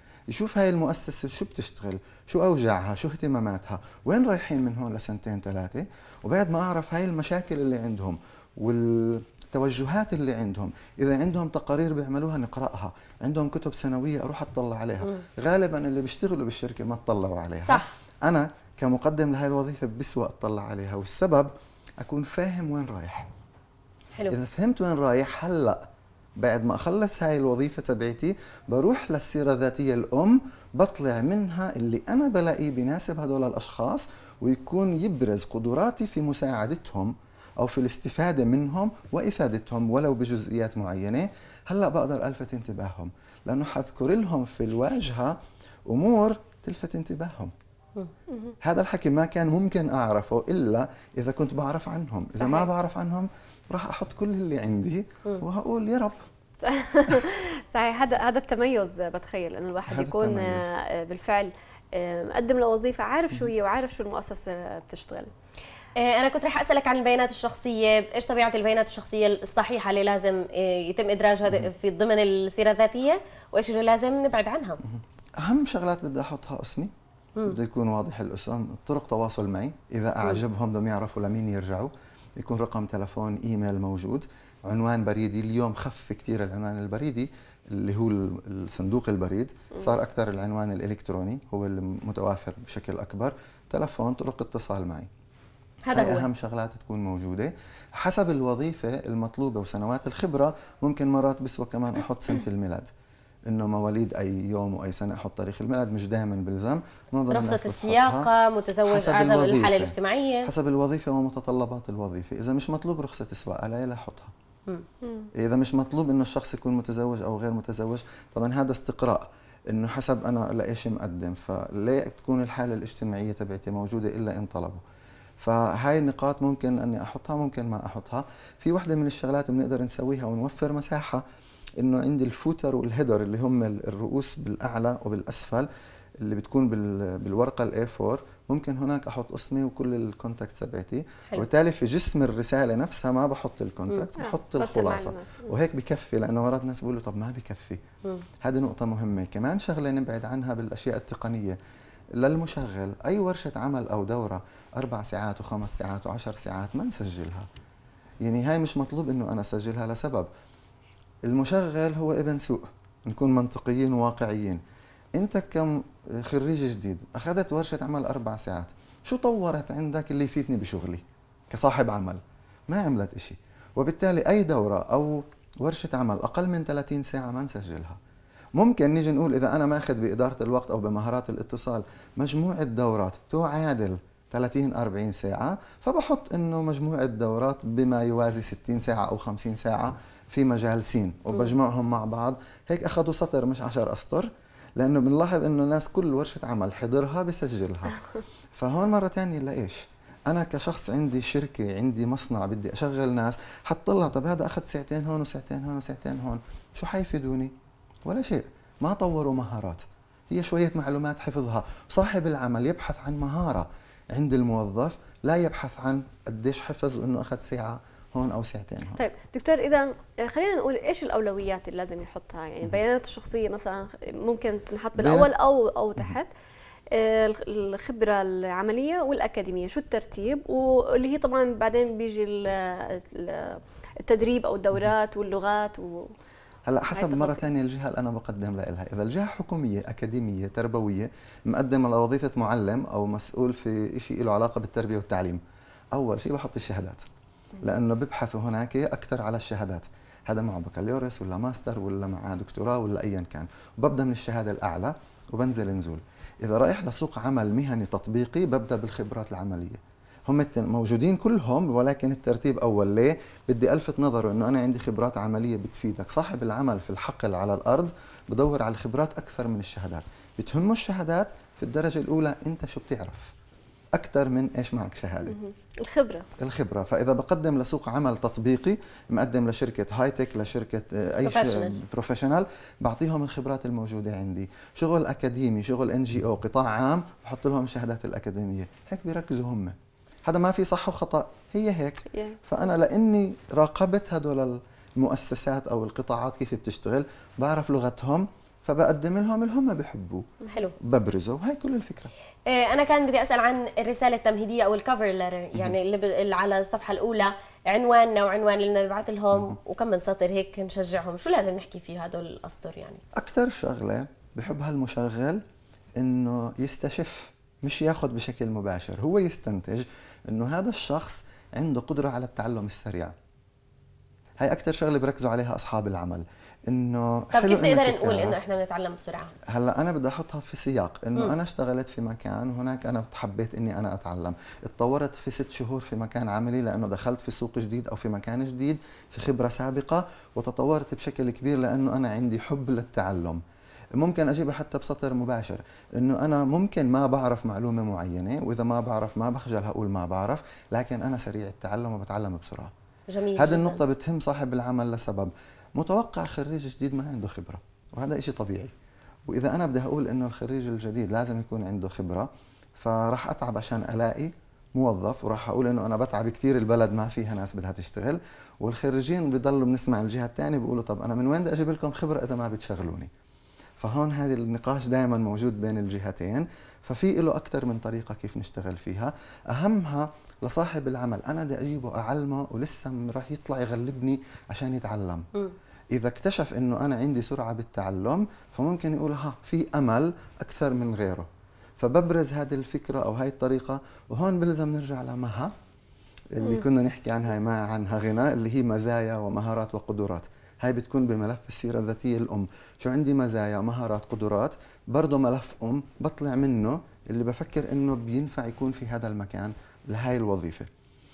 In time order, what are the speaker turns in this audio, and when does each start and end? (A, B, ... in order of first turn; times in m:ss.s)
0:00.3-0:21.5 A
0:17.6-0:17.9 B
0:22.0-0:23.3 A
0:24.3-0:25.8 A
0:26.4-0:47.5 A
0:48.6-0:56.2 A
0:52.4-0:52.6 C
0:56.6-1:05.3 C
0:59.8-1:00.7 A
1:06.0-1:14.8 B
1:14.9-1:16.9 A
1:17.4-1:35.1 A
1:35.8-1:36.3 B
1:35.9-1:42.9 A
1:43.5-1:48.3 A
1:47.3-1:50.5 B
1:48.8-1:54.3 A
1:55.4-2:04.8 A
2:05.4-2:11.2 A
2:11.8-2:15.7 A
2:16.2-2:27.8 A
2:24.2-2:25.4 C
2:28.4-2:31.6 A
2:32.2-2:37.5 A
2:38.2-2:40.3 A
2:41.2-2:44.6 A
2:45.2-2:58.0 A
2:58.6-3:27.5 A
3:28.0-3:39.0 A
3:39.0-3:46.3 C
3:44.9-3:45.3 A
3:46.9-3:56.1 C
3:56.6-4:05.4 A
3:56.9-3:57.4 C
4:05.9-4:07.0 A
4:07.6-4:33.3 A
4:34.0-4:35.4 A
4:35.2-4:36.2 C
4:36.4-5:00.2 A
4:41.2-4:41.8 B
4:52.1-4:52.4 C
5:00.5-5:00.7 B
5:00.8-5:02.1 A
5:02.5-5:13.0 B
5:13.1-5:15.4 A
5:16.0-5:23.1 A
5:24.4-5:28.4 A
5:27.3-5:29.3 B
5:29.5-5:43.4 A
5:44.0-5:52.7 A
5:53.1-5:53.8 B
5:53.4-5:58.7 A
5:59.3-6:13.1 A
6:13.8-6:25.3 A
6:25.9-6:31.3 A
6:31.8-6:35.5 A
6:36.3-6:50.7 A